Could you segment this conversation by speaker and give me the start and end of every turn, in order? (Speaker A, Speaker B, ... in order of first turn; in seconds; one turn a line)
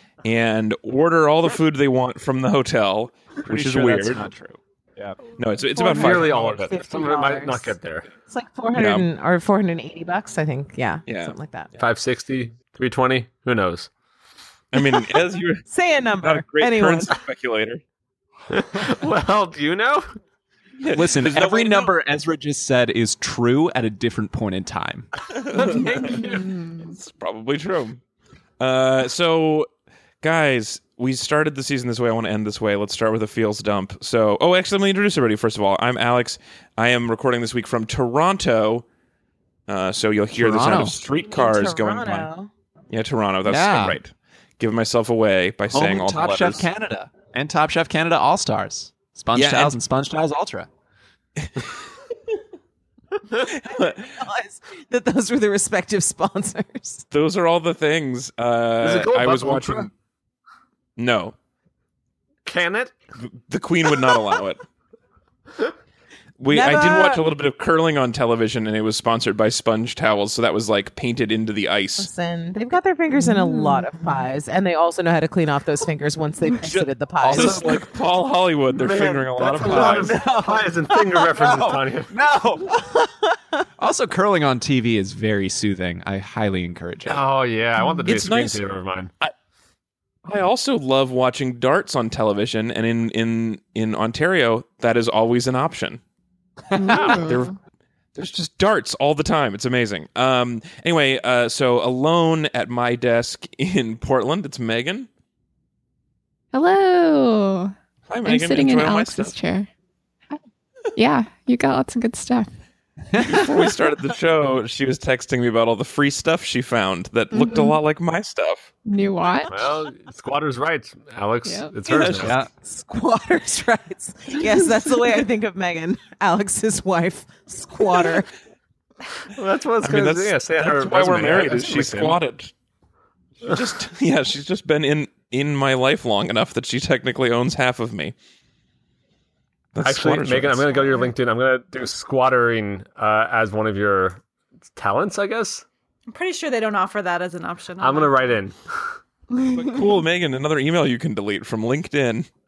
Speaker A: 0.2-4.2
Speaker B: 3.4-5.2
Speaker A: 5.3-6.4
Speaker C: 5.7-7.7
Speaker D: 5.9-8.1
Speaker C: 8.3-11.7
Speaker A: 8.7-9.1
Speaker A: 11.1-11.8
Speaker D: 11.8-13.9
Speaker A: 14.7-15.6
Speaker C: 15.7-17.1
Speaker A: 16.2-17.8
Speaker D: 18.5-20.1
Speaker A: 20.8-21.9
Speaker B: 20.9-25.1
Speaker A: 25.4-26.3
Speaker D: 25.5-26.5
Speaker E: 25.7-26.9
Speaker A: 26.9-28.0
Speaker A: 28.6-29.7
Speaker A: 30.2-38.9
Speaker A: 39.7-42.3
Speaker B: 40.4-41.0
Speaker C: 41.3-42.5
Speaker A: 42.9-46.6
Speaker B: 43.4-44.0
Speaker B: 45.7-50.7
Speaker A: 49.3-49.7
Speaker A: 51.4-51.7
Speaker A: 53.4-54.1
Speaker C: 54.0-57.0
Speaker A: 57.1-59.9
Speaker D: 58.8-59.9
Speaker A: 61.0-61.3
Speaker D: 62.5-63.0
Speaker A: 63.5-64.6
Speaker A: 66.4-72.1
Speaker C: 66.5-67.2
Speaker C: 72.0-77.7
Speaker E: 73.2-74.1
Speaker A: 76.7-80.3
Speaker B: 77.2-77.8
Speaker D: 78.7-82.1
Speaker B: 79.8-80.3
Speaker C: 80.9-81.2
Speaker B: 81.3-82.9
Speaker C: 82.8-83.3
Speaker B: 83.8-87.2
Speaker D: 87.0-89.1
Speaker A: 88.0-88.6
Speaker A: 90.2-96.0
Speaker E: 96.7-97.5
Speaker A: 96.9-97.5
Speaker A: 98.1-105.1
Speaker E: 106.5-107.7
Speaker A: 108.1-109.3
Speaker E: 108.2-109.7
Speaker E: 110.9-112.5
Speaker A: 113.2-118.7
Speaker E: 117.3-117.8
Speaker E: 118.8-119.7
Speaker D: 119.5-122.3
Speaker E: 121.4-121.7
Speaker A: 121.9-122.3
Speaker B: 122.1-122.5
Speaker C: 122.6-128.3
Speaker D: 129.3-132.2
Speaker A: 129.8-132.5
Speaker A: 133.4-138.1
Speaker A: 139.7-141.1
Speaker D: 139.8-144.2
Speaker D: 144.7-145.6
Speaker F: 146.1-148.4
Speaker D: 147.8-148.9
Speaker A: 149.5-152.3